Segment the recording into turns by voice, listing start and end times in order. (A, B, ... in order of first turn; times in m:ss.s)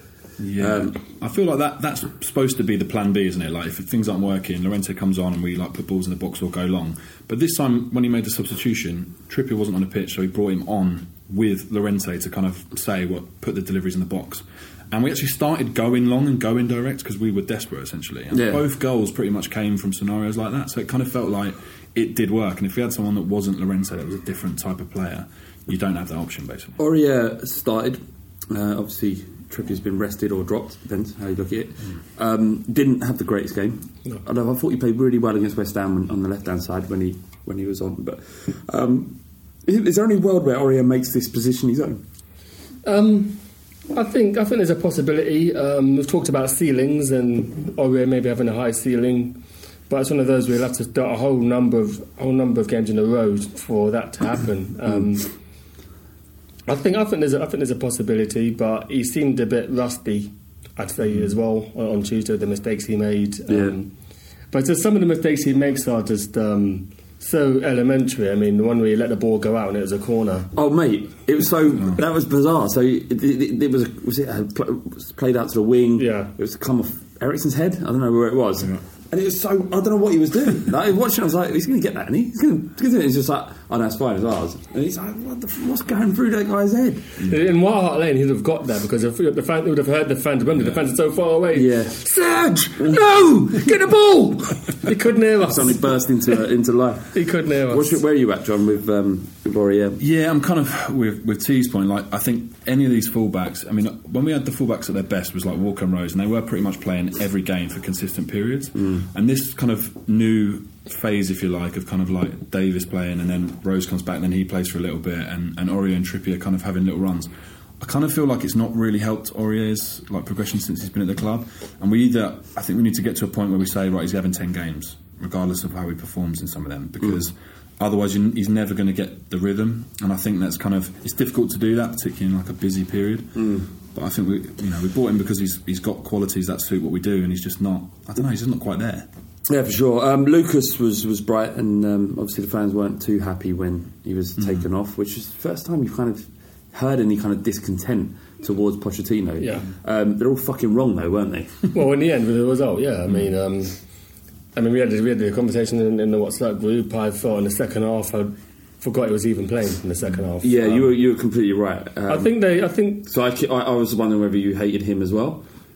0:00.4-0:26.8 A
0:00.6-0:01.0 B
0:18.3-0:18.6 B
0:26.8-0:42.0 B
0:42.8-0:43.4 C
0:43.9-0:55.3 C
0:56.7-1:03.9 C
1:03.5-1:03.8 B
1:04.5-1:10.5 C
1:10.6-1:27.2 B
1:16.0-1:16.3 C
1:27.2-1:35.8 C
1:31.5-1:32.0 B
1:35.4-1:40.0 B
1:37.1-1:38.0 C
1:40.0-2:19.1 A
1:48.8-1:49.1 B
2:13.4-2:13.7 B
2:19.5-2:31.7 B
2:29.4-2:29.7 C
2:31.7-2:33.8 C
2:34.6-2:40.9 C
2:40.4-2:42.4 B
2:42.1-2:43.1 C
2:43.0-2:45.4 B